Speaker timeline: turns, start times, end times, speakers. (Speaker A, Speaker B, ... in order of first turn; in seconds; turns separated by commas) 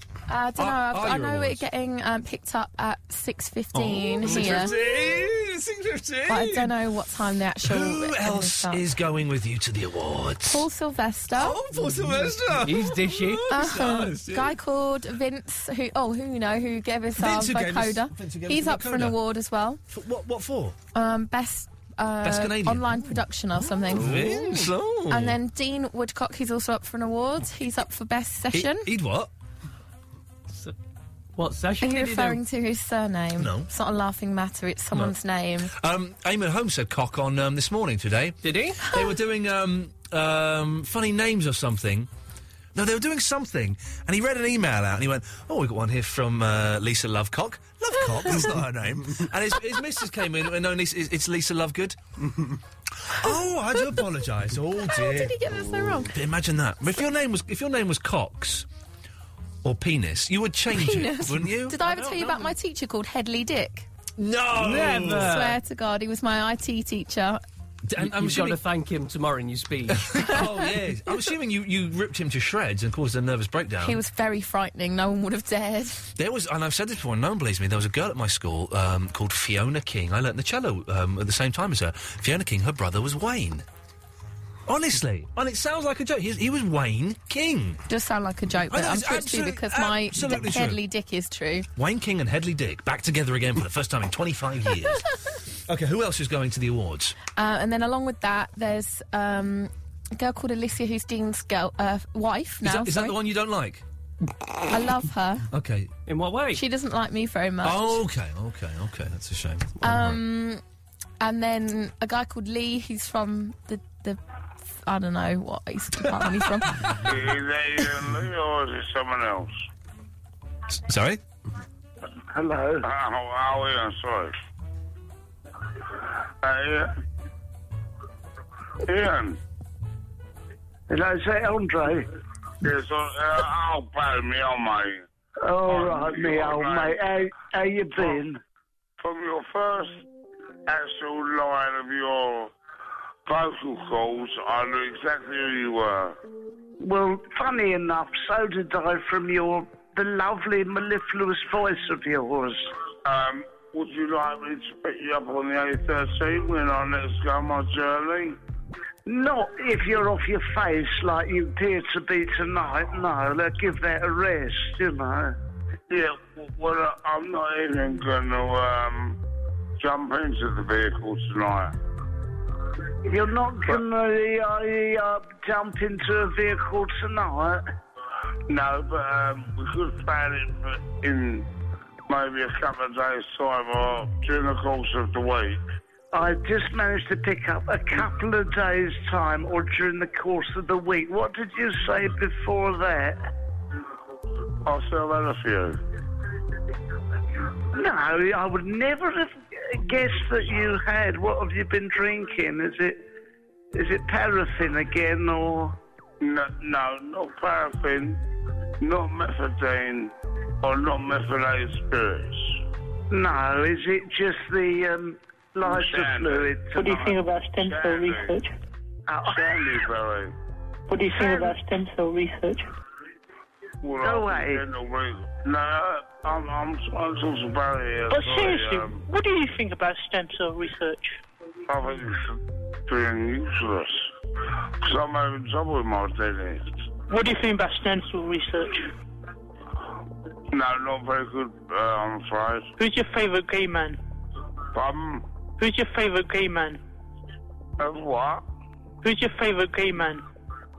Speaker A: 0.3-4.7, Speaker B: 0.6-1.6, Speaker B: 3.7-6.7, Speaker A: 6.3-8.8, Speaker B: 7.6-10.7, Speaker A: 10.5-11.6, Speaker B: 11.3-14.6, Speaker C: 11.8-13.4, Speaker A: 13.5-19.8, Speaker B: 17.1-19.2, Speaker B: 19.9-20.8, Speaker A: 20.9-24.4, Speaker B: 22.2-25.4, Speaker C: 23.9-24.7, Speaker A: 25.1-28.9, Speaker B: 28.5-29.3, Speaker C: 31.4-32.4, Speaker A: 31.8-35.7, Speaker B: 33.4-33.7, Speaker B: 35.7-42.1, Speaker C: 38.4-38.8, Speaker B: 42.7-52.0, Speaker B: 53.1-58.7, Speaker A: 54.8-56.1, Speaker B: 59.6-62.5, Speaker A: 60.7-63.9, Speaker B: 64.2-65.3, Speaker C: 64.6-65.6, Speaker A: 65.2-67.4, Speaker B: 67.9-68.6, Speaker C: 68.0-70.5, Speaker B: 69.9-74.0, Speaker A: 73.8-76.1, Speaker B: 76.2-83.7, Speaker B: 84.7-87.8, Speaker A: 87.9-91.7, Speaker B: 88.7-90.8, Speaker B: 91.8-97.2, Speaker A: 97.3-103.2, Speaker B: 102.6-103.8, Speaker A: 104.7-105.5, Speaker B: 105.5-105.9, Speaker C: 106.1-106.6, Speaker A: 106.5-108.0, Speaker B: 107.6-110.2, Speaker A: 109.8-110.6, Speaker A: 111.2-117.0, Speaker D: 117.0-119.6, Speaker B: 120.7-121.2, Speaker E: 122.3-122.8, Speaker D: 122.8-124.3, Speaker D: 126.4-126.9, Speaker D: 128.8-129.4, Speaker E: 130.9-132.1, Speaker D: 132.6-135.0, Speaker E: 135.4-138.4, Speaker D: 135.7-136.9, Speaker D: 139.0-140.0, Speaker D: 140.7-142.5, Speaker D: 143.2-146.2, Speaker E: 146.8-152.7, Speaker D: 153.0-158.4, Speaker E: 159.1-165.3, Speaker D: 165.9-169.2, Speaker D: 169.8-171.7, Speaker E: 173.1-177.6, Speaker D: 178.5-181.5, Speaker D: 182.1-185.6, Speaker E: 186.1-193.3, Speaker D: 194.6-195.8, Speaker E: 197.7-203.0, Speaker E: 203.7-205.7, Speaker D: 206.2-208.2, Speaker D: 208.8-212.5, Speaker E: 213.1-217.1, Speaker D: 215.6-218.3, Speaker F: 216.7-218.5, Speaker E: 219.1-219.6, Speaker D: 219.3-220.3, Speaker F: 220.9-222.7, Speaker E: 221.1-221.5, Speaker D: 223.8-229.0, Speaker E: 224.0-224.6, Speaker F: 228.1-231.2, Speaker D: 231.7-234.1, Speaker D: 234.8-236.7, Speaker F: 237.1-238.9, Speaker D: 240.5-242.7, Speaker F: 242.8-244.0, Speaker D: 244.7-245.2, Speaker F: 245.6-246.8, Speaker D: 247.8-248.4, Speaker F: 249.0-250.2